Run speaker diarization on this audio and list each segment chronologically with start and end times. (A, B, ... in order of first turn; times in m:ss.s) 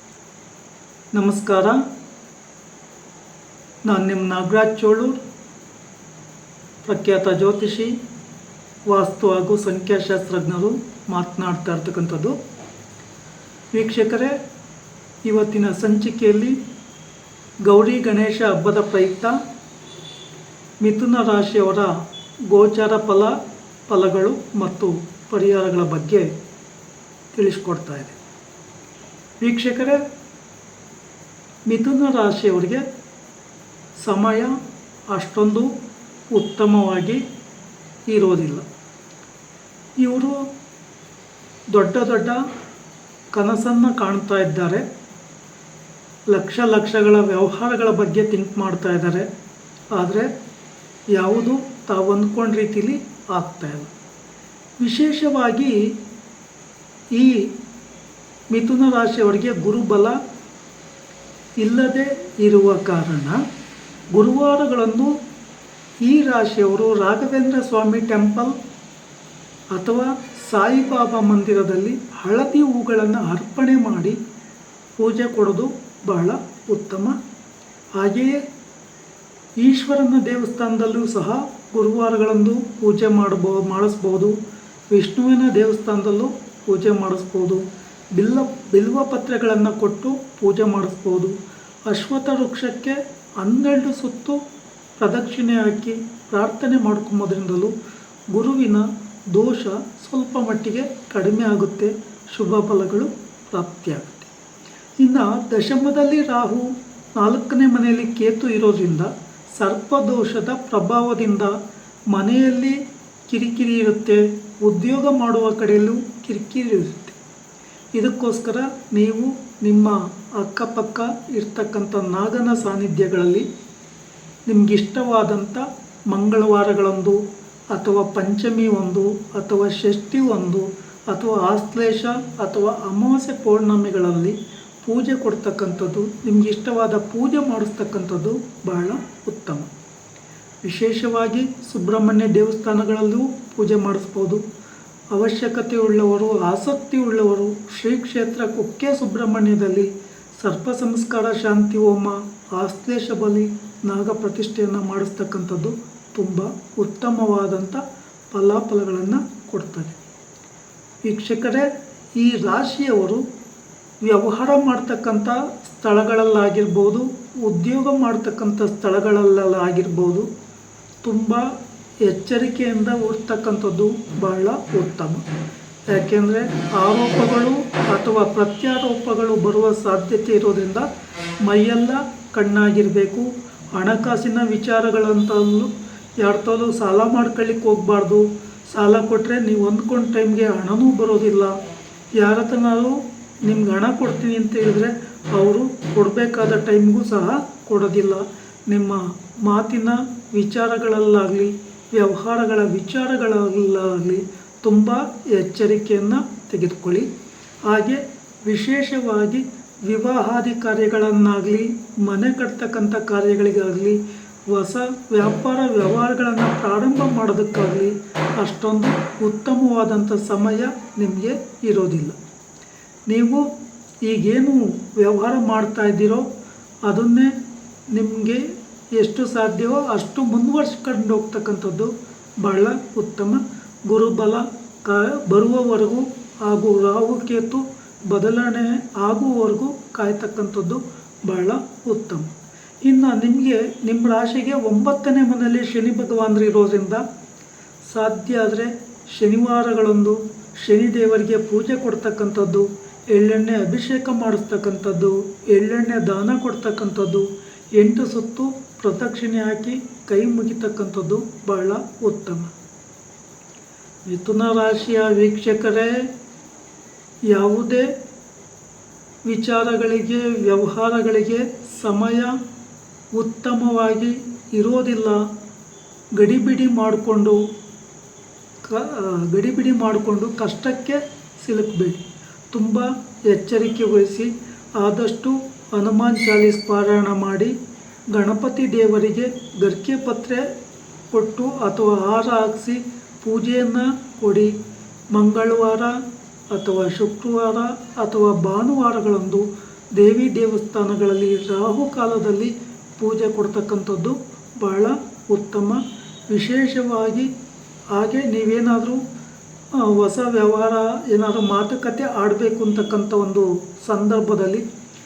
0:01.1-0:01.8 A
0:03.9-0:05.2 A
0:06.8-0:07.9 A
0:08.9-0:12.4 A
0:13.7-0:14.4 A
0:15.3-0:16.6 A
0:17.7-0:19.4 A
0:20.8-0:22.0 A
0:22.5-0:23.3 A
0:23.9-0:26.3 A
0:27.3-0:28.2 A
0:29.4-0:30.0 A
0:31.7-0:32.8 A
0:34.0-0:34.5 A
0:35.1-0:35.7 A
0:36.3-0:37.2 A
0:38.1-0:38.6 A
0:40.0-0:40.4 A
0:41.7-0:42.4 A
0:43.3-0:44.8 A
0:46.3-0:49.3 A
0:50.0-0:50.3 A
0:51.2-0:53.9 A
0:54.8-0:55.9 A
0:57.2-0:57.5 A
0:58.5-1:00.2 A
1:01.6-1:03.4 A
1:04.2-1:05.2 A
1:06.0-1:08.5 A
1:09.7-1:14.2 A
1:15.0-1:17.2 A
1:18.0-1:18.4 A
1:19.6-1:24.4 A
1:24.9-1:27.6 A
1:28.2-1:31.4 A
1:31.9-1:34.4 A
1:35.0-1:37.7 A
1:38.3-1:44.3 A
1:45.0-1:51.5 A
1:52.1-1:57.2 A
1:58.0-2:03.5 A
2:04.5-2:07.2 A
2:07.7-2:19.7 A
2:20.6-2:24.4 A
2:25.1-2:40.0 A
2:41.1-2:43.2 A
2:44.0-2:50.3 A
2:51.0-2:51.5 A
2:52.0-2:55.2 A
2:55.9-3:00.9 A
3:01.4-3:11.6 A
3:12.2-3:27.1 A
3:27.7-3:42.2 A
3:43.1-3:43.5 A
3:44.1-3:46.3 A
3:46.9-3:47.3 A
3:47.9-3:48.4 A
3:49.0-3:51.9 A
3:52.4-4:02.3 A
4:02.8-4:07.0 A
4:07.9-4:22.5 A
4:24.1-4:26.1 A
4:27.3-4:27.9 A
4:29.3-4:32.4 A
4:33.2-4:35.3 A
4:36.2-4:37.4 A
4:38.6-4:47.5 A
4:48.1-4:50.5 A
4:51.1-4:54.5 A
4:55.1-4:56.0 A
4:56.5-5:07.3 A
5:07.9-5:09.0 A
5:09.8-5:14.6 A